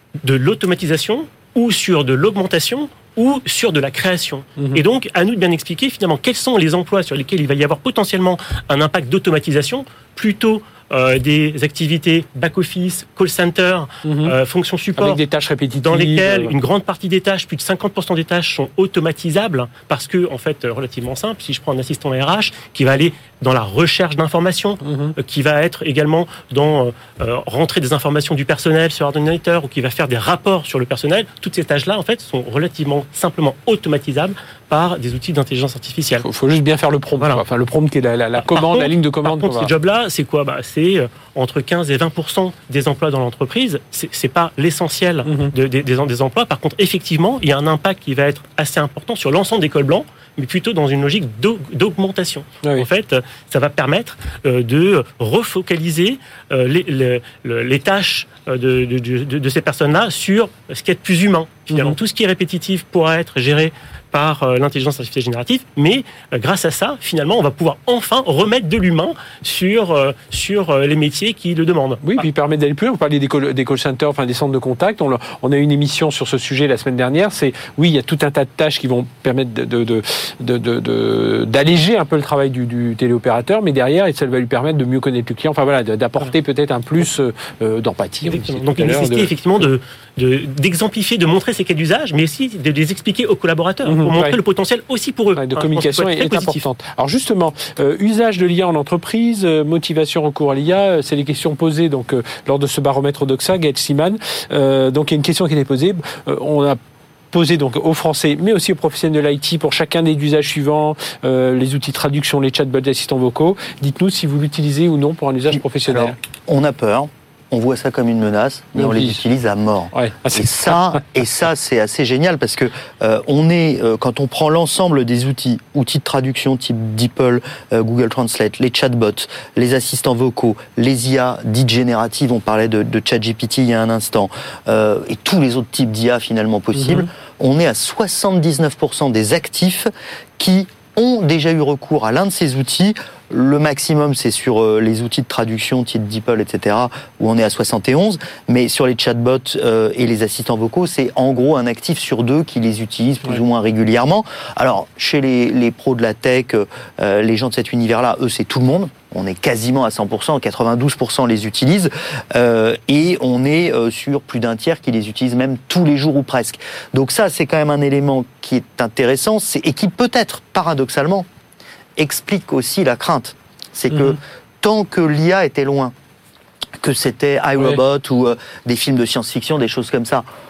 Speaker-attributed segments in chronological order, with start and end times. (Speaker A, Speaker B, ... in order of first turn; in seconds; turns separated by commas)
Speaker A: 0.2-15.2, Speaker B: 4.6-4.8, Speaker B: 14.0-14.3, Speaker B: 15.0-16.6, Speaker A: 15.8-36.3, Speaker B: 24.8-25.1, Speaker B: 36.2-39.7, Speaker A: 37.2-37.4, Speaker A: 38.4-72.2, Speaker B: 45.3-45.5, Speaker B: 61.7-62.0, Speaker B: 72.0-89.3, Speaker A: 88.2-96.6, Speaker B: 93.8-94.4, Speaker B: 95.4-106.8, Speaker B: 107.3-116.2, Speaker C: 115.5-171.3, Speaker B: 118.8-119.2, Speaker B: 119.9-121.0, Speaker B: 136.8-137.1, Speaker C: 172.0-175.9, Speaker B: 173.9-174.2, Speaker C: 176.8-180.3